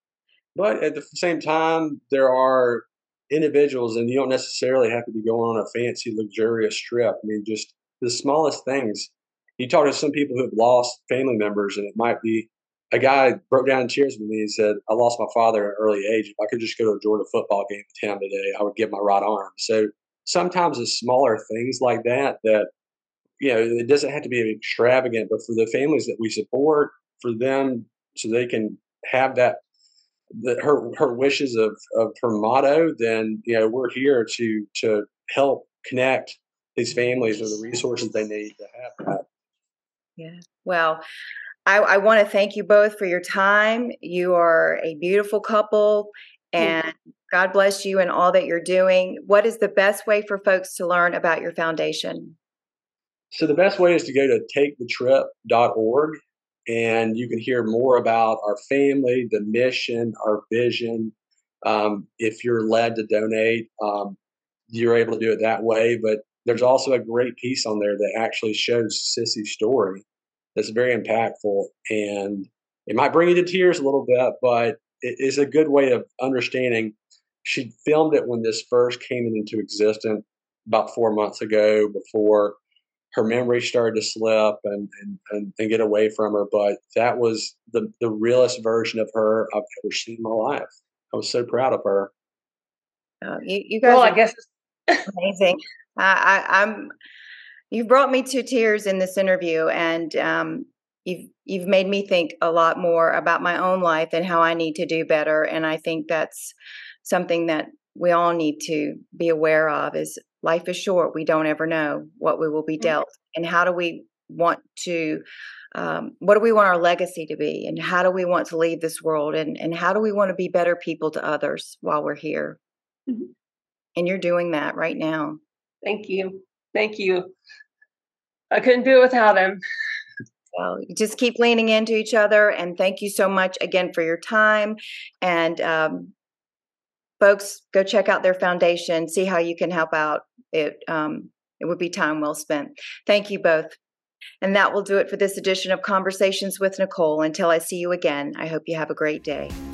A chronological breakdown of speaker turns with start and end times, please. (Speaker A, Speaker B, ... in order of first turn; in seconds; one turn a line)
Speaker A: 0.6-22.7
Speaker A: 23.4-29.6
Speaker A: 30.4-39.2
Speaker B: 40.2-41.0
Speaker B: 41.7-52.4
Speaker A: 53.3-61.1
Speaker A: 61.6-64.2
Speaker A: 64.7-70.0
Speaker A: 70.6-82.6
Speaker A: 83.1-92.1
Speaker B: 93.2-94.2
Speaker C: 93.8-95.1
Speaker B: 95.1-96.9
Speaker B: 97.7-115.2
Speaker B: 115.7-122.6
Speaker B: 124.0-125.4
Speaker C: 125.8-127.3
Speaker C: 128.5-129.6
Speaker B: 130.5-136.1
Speaker B: 137.2-143.8
Speaker B: 144.4-149.6